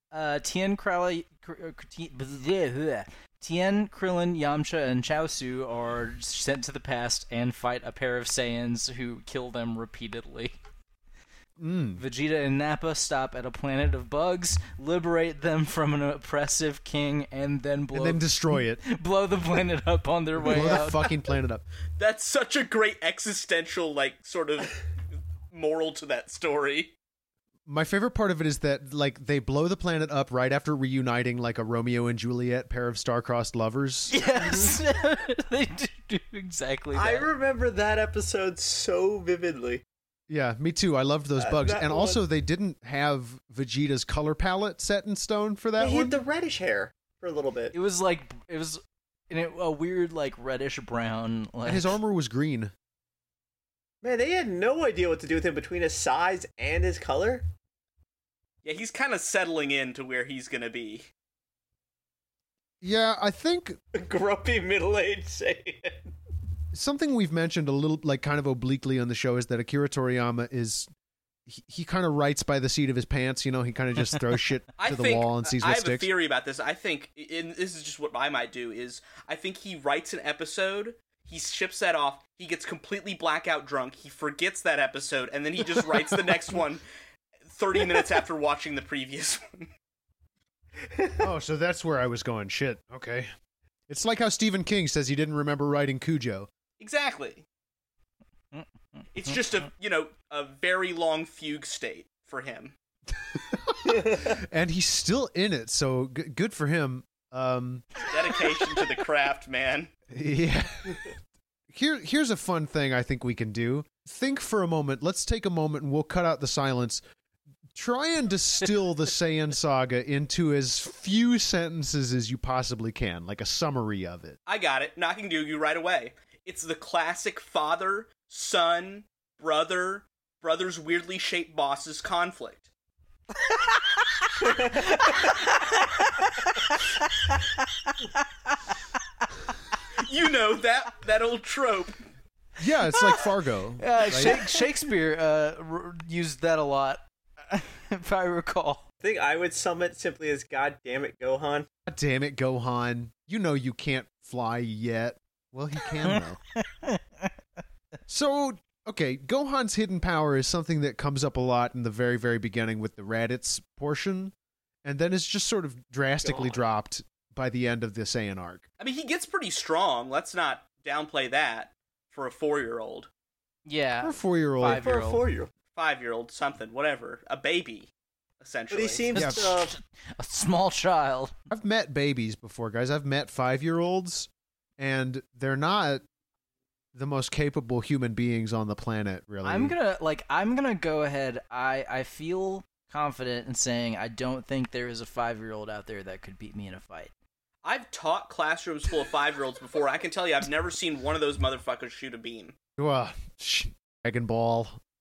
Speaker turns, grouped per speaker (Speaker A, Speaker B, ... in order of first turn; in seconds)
Speaker A: 0.1-10.6, 12.0-21.1, 34.1-37.3, 47.7-52.0, 98.5-99.0, 133.6-139.2, 143.8-148.8, 156.0-157.3, 173.7-175.2, 179.1-181.3, 189.4-197.1
Speaker B: 11.6-12.0, 17.9-18.8, 20.4-21.6, 27.6-34.2, 40.3-46.2, 51.6-52.7, 62.8-63.8, 66.7-70.9, 71.5-76.1, 91.2-93.3, 93.9-96.5, 103.2-108.1, 110.1-111.1, 111.7-117.0, 117.7-124.4, 142.6-144.4, 151.9-156.4, 158.1-164.3, 164.8-168.6, 174.0-174.8, 179.1-179.5, 181.5-186.0, 186.9-189.8, 202.8-204.8
Speaker C: 22.0-24.8, 25.5-26.9, 58.6-61.1, 74.8-86.8, 87.5-89.7, 96.8-97.4, 99.1-102.7, 108.0-109.9, 124.5-132.7, 139.9-142.0, 168.8-173.1, 175.8-177.9, 178.4-179.1, 197.6-202.5
Speaker D: 36.9-39.8, 41.4-42.2, 45.8-47.7, 54.0-57.5, 63.9-66.1, 90.9-91.2, 103.9-104.3, 134.6-135.0, 149.0-151.7, 166.2-166.5, 174.6-175.5, 178.7-179.8